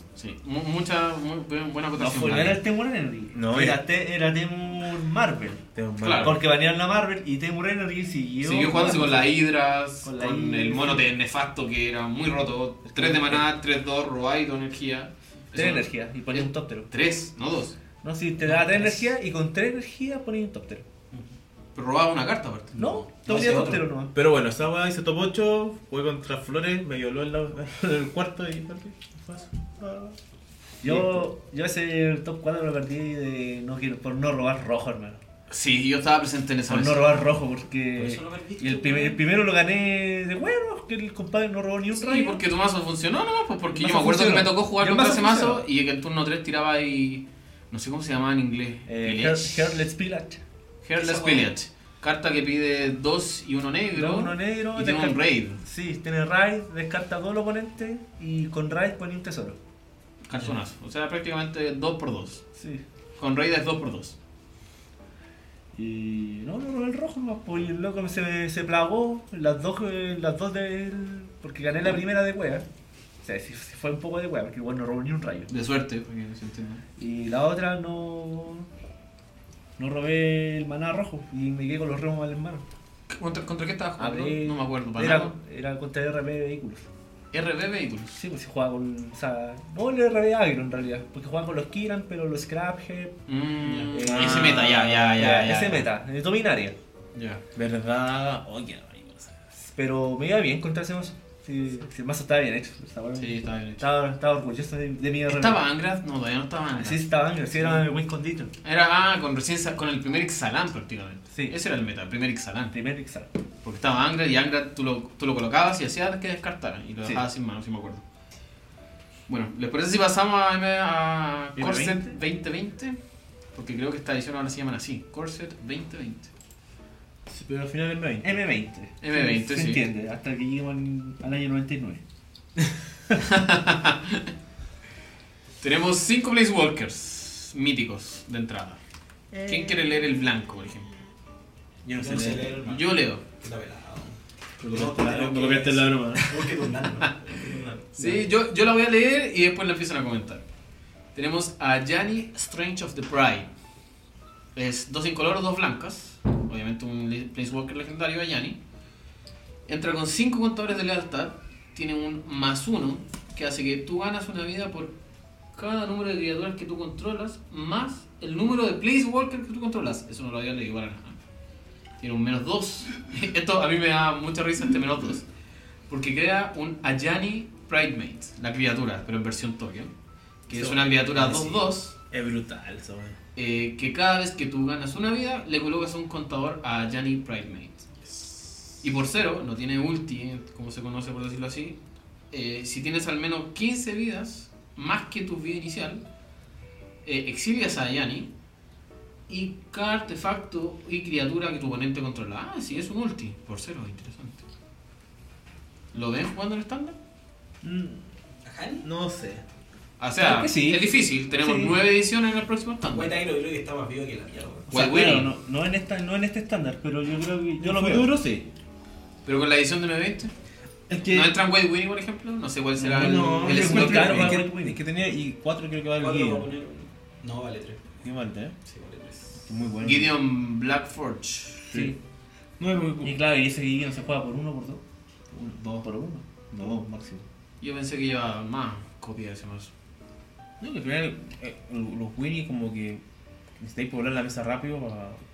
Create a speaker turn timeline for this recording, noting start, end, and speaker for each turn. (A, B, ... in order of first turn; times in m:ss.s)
0:00.2-0:02.6 A
0:02.0-0:09.3 B
0:03.3-0:03.8 C
0:05.8-0:06.4 C
0:06.0-0:06.4 A
0:08.4-0:17.8 A
0:10.0-0:11.1 B
0:12.9-0:13.4 B
0:15.5-0:16.9 B
0:18.0-0:20.8 B
0:18.4-0:19.1 A
0:21.8-0:22.8 A
0:22.7-0:23.9 D
0:22.8-0:24.1 B
0:24.1-0:30.2 C
0:30.8-0:31.3 C
0:30.8-0:35.2 B
0:35.5-0:37.3 A
0:36.7-0:42.4 B
0:37.9-0:39.2 D
0:41.9-0:49.8 A
0:43.7-0:45.6 B
0:48.9-0:50.4 B
0:50.8-0:55.6 A
0:51.0-0:51.5 D
0:53.9-0:59.6 B
1:00.3-1:02.4 A
1:02.6-1:02.8 B
1:03.2-1:04.2 A
1:05.7-1:12.7 B
1:13.2-1:15.5 B
1:15.5-1:16.8 A
1:17.0-1:18.7 B
1:19.8-1:22.6 B
1:23.1-1:25.3 A
1:24.0-1:26.9 B
1:27.3-1:28.2 A
1:28.2-1:33.2 B
1:33.3-1:35.9 A
1:33.7-1:33.9 D
1:33.9-1:36.8 B
1:34.0-1:35.4 C
1:37.1-1:37.4 A
1:37.5-1:39.3 C
1:39.5-1:45.6 B
1:43.2-1:43.9 A
1:45.3-1:47.0 A
1:46.7-1:48.5 B
1:48.6-1:52.7 A
1:51.3-1:51.6 B
1:52.7-1:53.3 B
1:53.6-1:58.0 A
1:59.3-2:03.0 A
2:01.6-2:02.0 C
2:03.5-2:06.3 A
2:07.3-2:08.3 C
2:08.2-2:12.0 B
2:09.0-2:09.8 A
2:13.2-2:14.3 A
2:15.6-2:18.8 A
2:19.3-2:19.9 C
2:19.4-2:20.9 A
2:21.8-2:22.5 C
2:21.9-2:27.9 D
2:22.5-2:23.2 A
2:24.6-2:26.5 C
2:28.0-2:30.4 A
2:28.0-2:28.2 C
2:31.1-2:33.5 A
2:34.6-2:38.6 A
2:39.7-2:44.9 A
2:45.5-2:51.2 A
2:52.0-2:55.2 A
2:55.9-2:59.9 A
3:00.5-3:02.0 A
3:00.5-3:03.2 C
3:03.4-3:07.9 A
3:08.6-3:11.8 A
3:12.3-3:16.0 A
3:17.0-3:18.3 A
3:19.3-3:24.4 A
3:25.9-3:27.0 A
3:27.6-3:28.0 C
3:28.4-3:28.8 D
3:28.8-3:29.4 C
3:30.0-3:33.2 A
3:30.2-3:31.8 B
3:32.9-3:34.7 D
3:34.7-3:35.3 A
3:34.7-3:38.2 B
3:37.6-3:38.5 C
3:39.2-3:40.3 A
3:40.9-3:41.4 C
3:41.1-3:44.4 A
3:42.8-3:46.5 C
3:43.2-3:44.8 B
3:46.0-3:47.8 D
3:48.0-3:48.6 C
3:48.7-3:49.5 D
3:49.5-3:50.1 C
3:49.8-3:51.6 A
3:51.7-3:51.9 C
3:51.7-3:52.0 B
3:52.6-3:53.2 C
3:53.0-3:54.8 B
3:55.3-3:55.9 C
3:55.8-3:56.8 B
3:56.5-3:57.2 C
3:57.6-3:59.7 A
4:00.6-4:03.0 C
4:03.6-4:05.2 C